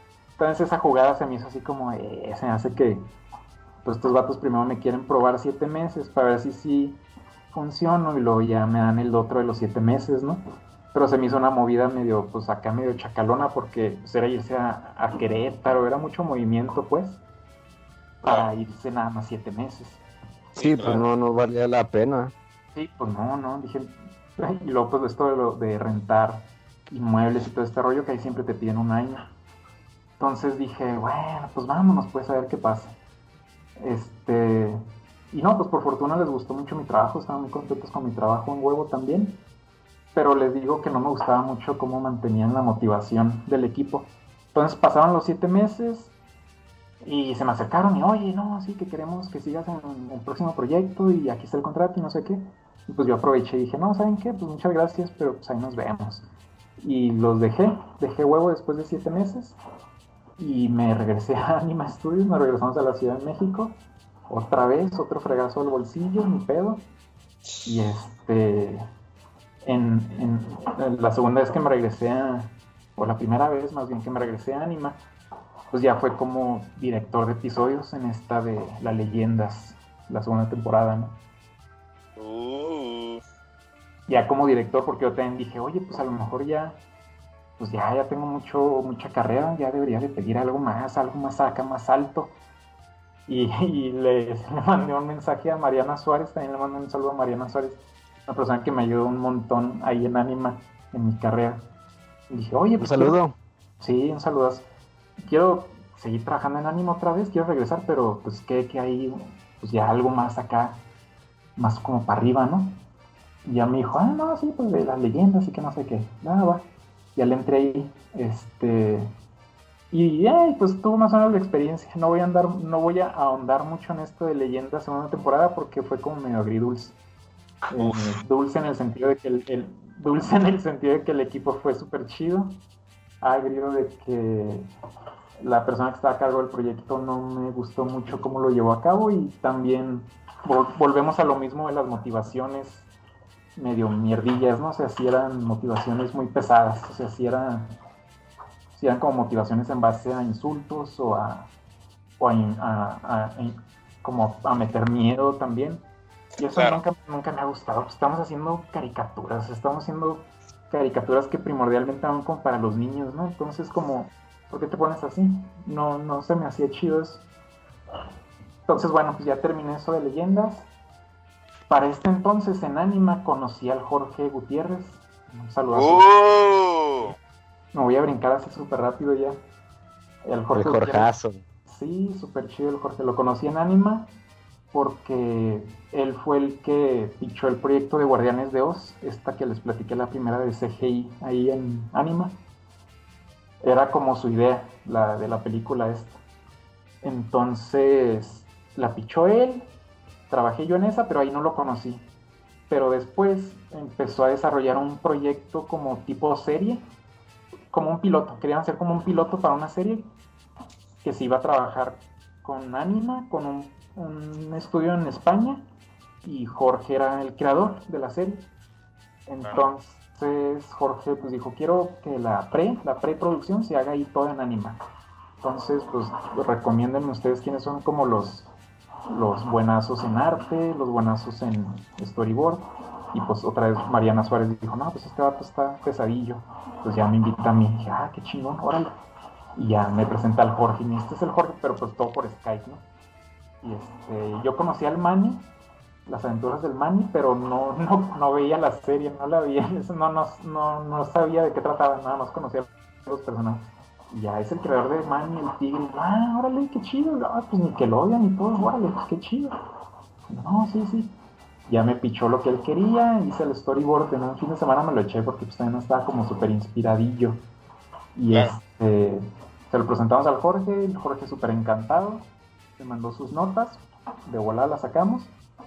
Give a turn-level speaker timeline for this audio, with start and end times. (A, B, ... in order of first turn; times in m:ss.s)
0:00.4-0:03.0 A
0:03.8-0:07.0 A
0:07.5-0:10.4 A
0:10.9-0:17.2 A
0:18.2-0:20.0 A
0:18.2-0:18.5 B
0:20.5-0:21.0 B
0:20.6-0:22.3 C
0:22.7-0:29.3 A
0:30.2-0:32.9 A
0:33.8-0:39.4 A
0:40.1-0:46.1 A
0:47.0-0:56.2 A
0:56.8-0:59.5 A
1:00.4-1:03.8 A
1:04.3-1:06.8 A
1:07.4-1:07.7 B
1:07.6-1:08.8 A
1:09.6-1:15.0 A
1:15.7-1:21.1 A
1:22.2-1:23.2 B
1:24.1-1:26.8 A
1:27.6-1:32.3 A
1:33.3-1:41.6 A
1:42.3-1:43.2 A
1:42.8-1:43.3 C
1:43.8-1:44.6 A
1:45.2-1:50.8 A
1:51.6-1:52.8 A
1:53.4-1:59.1 A
1:59.9-2:07.0 A
2:07.7-2:12.6 A
2:07.8-2:08.2 B
2:13.2-2:14.7 A
2:15.4-2:22.9 A
2:23.6-2:27.7 A
2:28.7-2:31.5 A
2:32.2-2:35.8 A
2:36.4-2:47.2 A
2:36.5-2:36.8 B
2:48.7-2:50.7 A
2:51.7-2:56.0 A
2:55.7-2:57.2 B
2:57.7-2:59.4 A
3:00.2-3:01.1 A
3:00.5-3:01.4 C
3:01.6-3:04.1 A
3:04.7-3:12.4 A
3:13.6-3:16.2 A
3:17.0-3:19.6 A
3:20.3-3:22.0 A
3:22.7-3:26.8 A
3:27.7-3:30.0 A
3:31.0-3:35.6 A
3:36.2-3:38.5 A
3:39.3-3:44.8 A
3:39.4-3:39.7 B
3:45.4-3:48.5 A
3:49.1-3:58.9 A
3:59.6-4:02.8 A
4:03.6-4:05.4 A
4:06.1-4:19.5 A
4:20.3-4:21.1 A
4:21.7-4:27.4 A
4:28.2-4:32.2 A
4:32.8-4:35.3 A